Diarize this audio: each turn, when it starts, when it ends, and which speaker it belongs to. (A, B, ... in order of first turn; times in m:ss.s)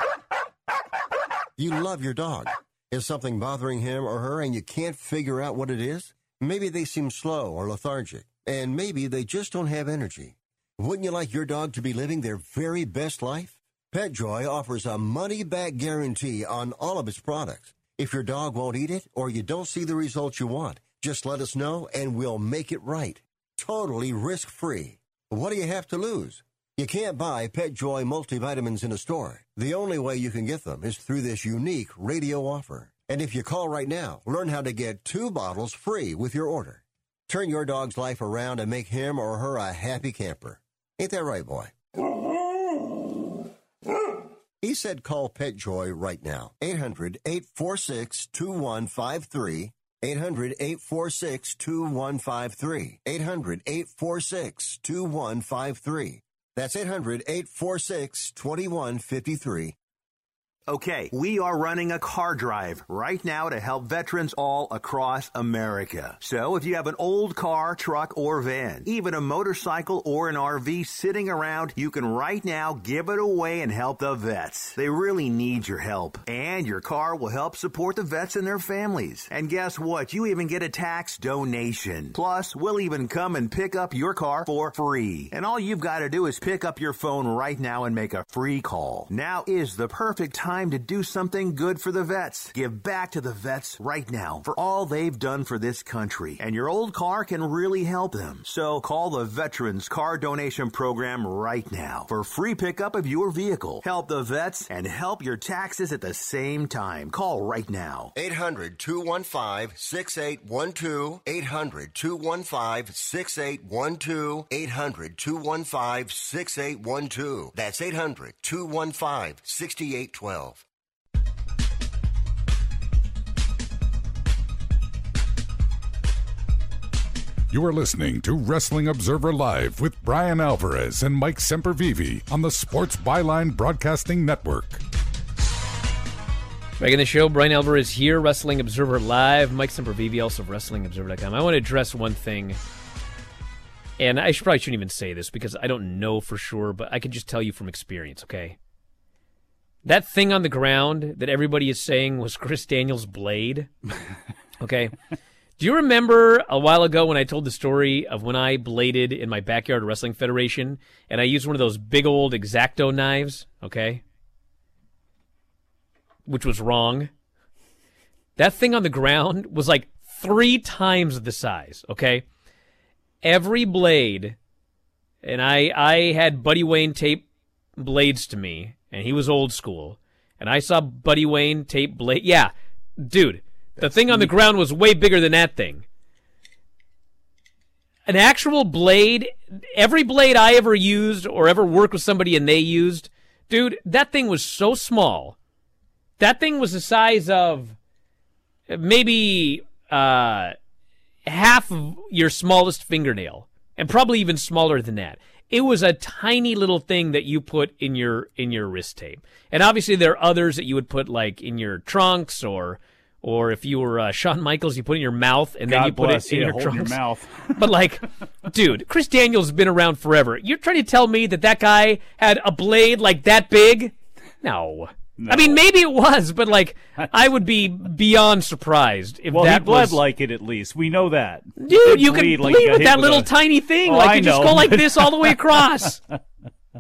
0:01.6-0:41.8 A
0:44.6-0:59.8 A
1:00.7-1:48.1 B
1:48.2-2:00.6 A
2:07.5-2:14.8 C
2:16.8-2:22.6 D
2:24.0-2:28.6 D
2:29.8-2:33.7 D
2:34.6-2:35.0 D
2:35.6-2:44.0 D
2:46.3-2:47.1 D
2:48.4-2:52.2 D
2:53.2-2:54.4 D
2:55.2-2:57.2 D
2:57.8-3:05.9 D
3:03.8-3:04.3 E
3:08.1-3:15.4 D
3:16.2-3:17.8 D
3:18.7-3:20.6 D
3:21.3-3:37.0 D
3:35.7-3:37.6 E
3:37.6-3:50.0 D
3:45.2-3:45.6 E
3:49.3-3:53.3 E
3:51.6-3:56.0 D
3:53.9-3:56.2 E